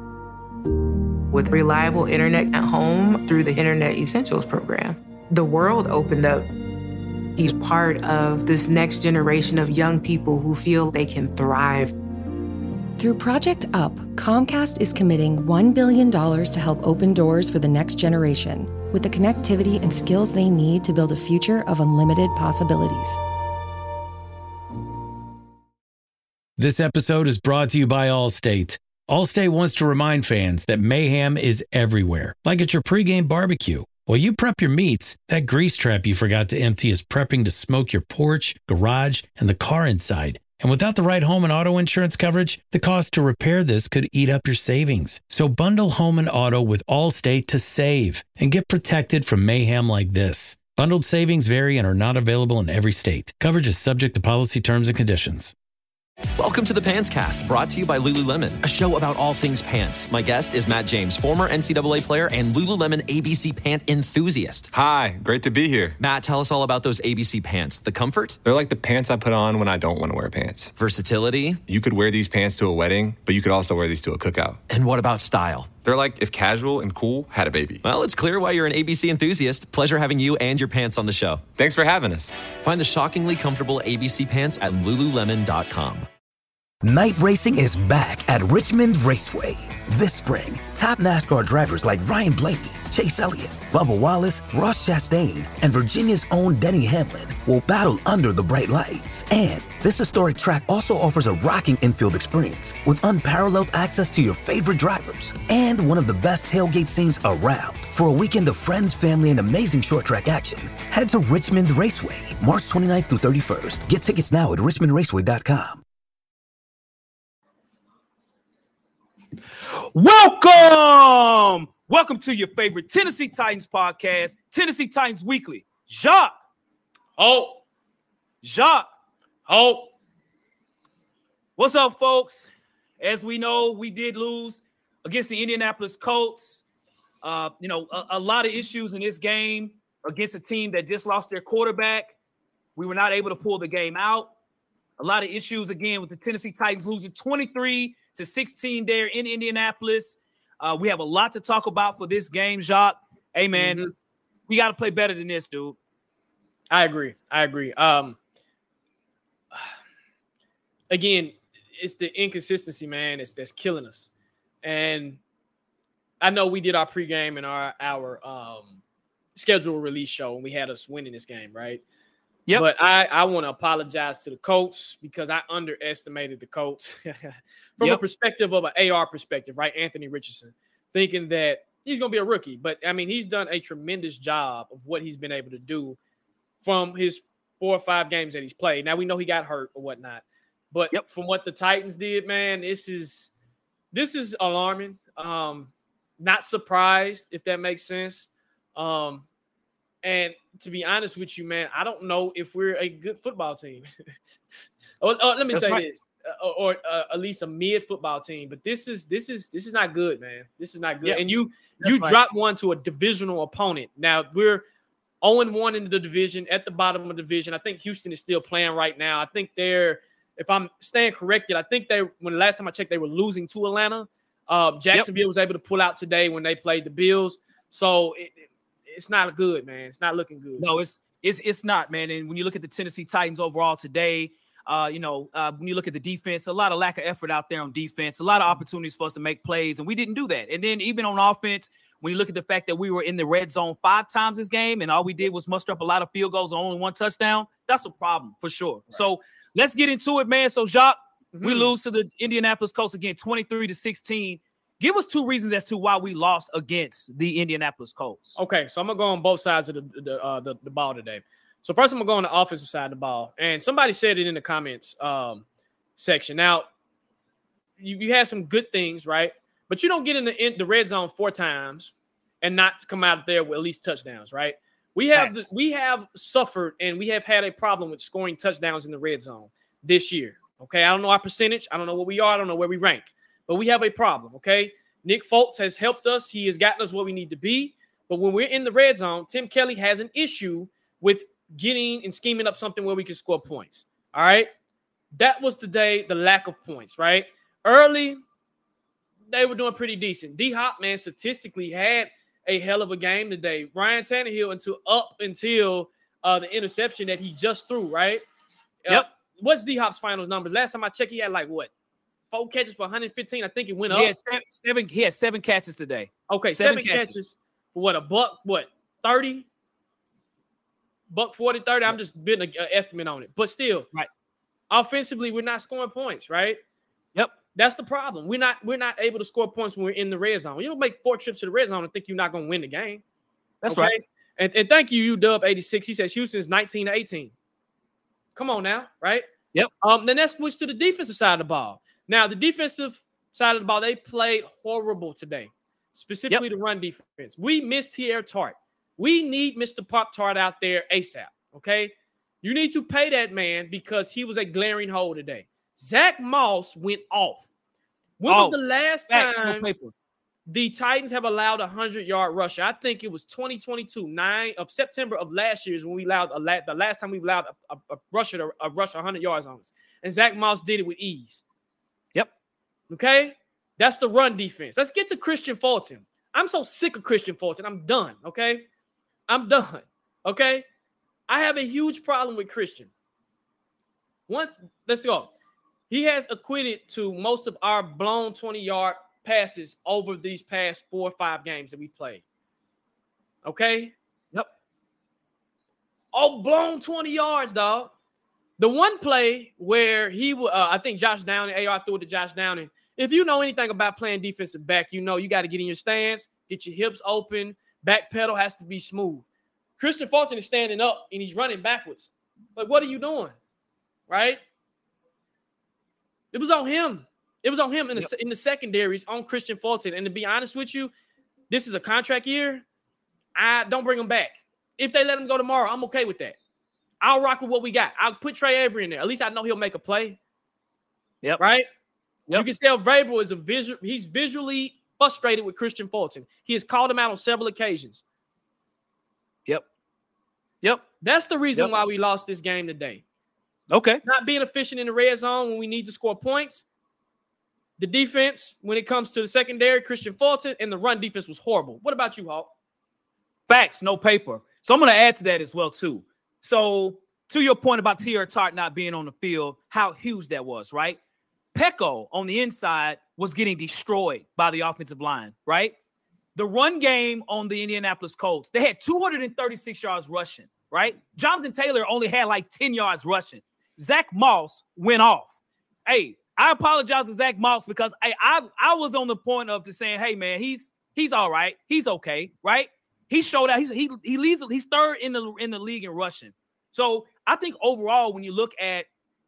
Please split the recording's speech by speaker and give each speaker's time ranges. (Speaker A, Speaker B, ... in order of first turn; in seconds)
Speaker A: 1.3-6.5, 7.4-11.9
Speaker B: 13.0-23.2
Speaker C: 26.6-55.5
Speaker D: 56.4-64.7, 66.0-68.4, 70.8-71.6, 74.7-75.7, 77.8-81.4, 82.5-86.1
Speaker E: 64.7-66.0, 68.4-70.7, 71.7-74.6, 75.8-77.8, 81.5-82.4
Speaker F: 86.8-115.8
Speaker G: 119.6-126.4, 128.4-128.9, 131.6-136.6, 137.2-142.1, 142.8-144.3, 145.0-153.9, 154.5-155.8, 205.5-205.8, 211.0-212.2, 230.6-258.4, 275.1-275.4, 313.9-317.1, 333.6-333.9, 358.2-359.9, 440.6-440.9, 443.7-444.0, 453.5-461.0, 461.5-465.8, 466.4-488.9
Speaker H: 127.2-127.6, 129.5-129.9, 153.5-153.9, 156.7-158.2, 160.9-164.1, 164.6-165.2, 166.2-168.8, 169.3-171.8, 172.5-186.0, 186.6-193.3, 193.9-199.2, 200.0-203.9, 205.0-214.6, 215.2-230.7, 251.3-251.7, 258.4-265.4, 266.0-266.7, 267.8-294.5, 295.1-298.2, 299.3-308.2, 308.8-311.7, 312.3-314.1, 316.3-319.4, 321.1-323.9, 324.7-326.6, 327.5-333.0, 333.7-337.3, 338.4-339.2, 339.8-357.5, 358.2-359.7, 360.5-371.4, 372.9-378.7, 379.3-380.6, 381.3-382.9, 384.3-385.3, 385.9-392.2, 393.4-393.9, 396.1-397.9, 398.6-409.2, 409.8-413.4, 414.1-414.4, 416.3-420.9, 421.5-422.6, 423.4-426.4, 427.0-430.2, 431.4-431.7, 432.3-438.0, 441.0-443.0, 444.0-446.6, 447.8-452.5